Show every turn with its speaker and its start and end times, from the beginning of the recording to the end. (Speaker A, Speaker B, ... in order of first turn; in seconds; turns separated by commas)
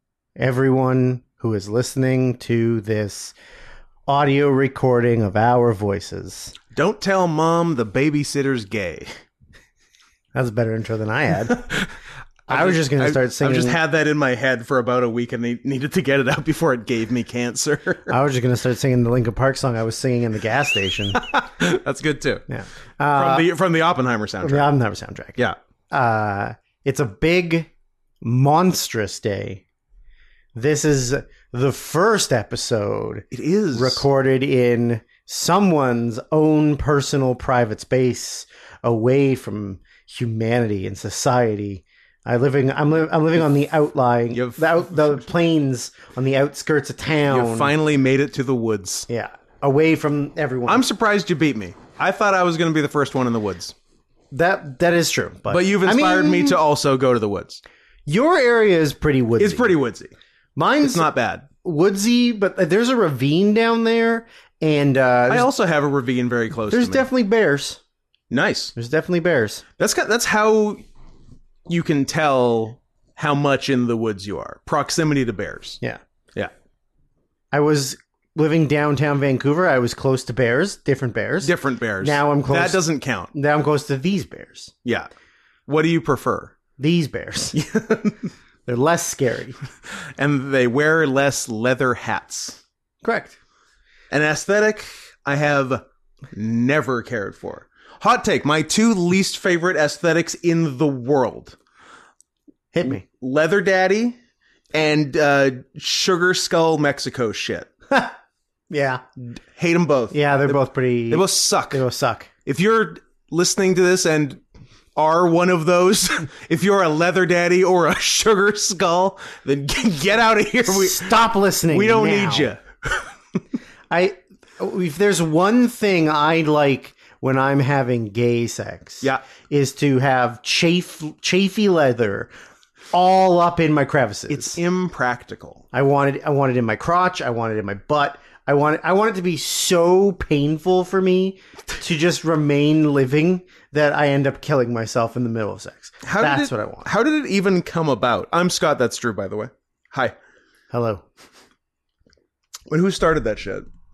Speaker A: 0.3-3.3, Speaker A: 4.1-6.5, Speaker B: 6.7-9.2, Speaker A: 10.3-11.6, Speaker B: 11.5-11.9, Speaker A: 12.5-13.8, Speaker B: 12.5-18.1, Speaker A: 18.1-21.3, Speaker B: 21.2-22.4, Speaker A: 22.5-23.5, Speaker B: 23.1-24.7, Speaker A: 24.4-25.4, Speaker A: 25.9-27.7, Speaker A: 28.2-29.6, Speaker A: 30.5-47.7, Speaker B: 33.3-34.0, Speaker B: 44.3-45.1, Speaker B: 47.3-49.1, Speaker A: 49.1-50.9, Speaker B: 50.7-53.7, Speaker A: 54.3-56.6, Speaker B: 55.5-57.6, Speaker A: 58.0-59.8, Speaker B: 59.4-60.1, Speaker A: 60.5-61.1, Speaker B: 60.8-61.5, Speaker A: 61.6-65.5, Speaker B: 65.3-67.1, Speaker A: 66.7-67.8, Speaker B: 68.3-68.7, Speaker A: 68.8-69.6, Speaker B: 69.8-70.8, Speaker B: 71.7-75.8, Speaker A: 77.5-84.7, Speaker B: 81.4-83.3, Speaker B: 85.7-86.5, Speaker A: 86.8-87.6, Speaker B: 87.5-88.2, Speaker A: 88.7-89.6, Speaker B: 89.9-92.6, Speaker A: 93.0-93.4, Speaker B: 94.1-101.6, Speaker A: 102.7-103.0, Speaker B: 102.8-104.2, Speaker B: 104.7-107.7, Speaker A: 107.9-108.1, Speaker A: 108.7-109.0, Speaker B: 109.6-110.6, Speaker A: 110.1-112.3, Speaker B: 111.1-111.8, Speaker B: 112.5-114.4, Speaker B: 114.9-121.2, Speaker A: 120.6-122.5, Speaker B: 121.7-123.1, Speaker A: 123.9-132.3, Speaker A: 132.9-134.6, Speaker B: 134.3-135.6, Speaker A: 135.7-146.9, Speaker B: 146.0-150.2, Speaker A: 150.7-151.0, Speaker B: 152.7-153.7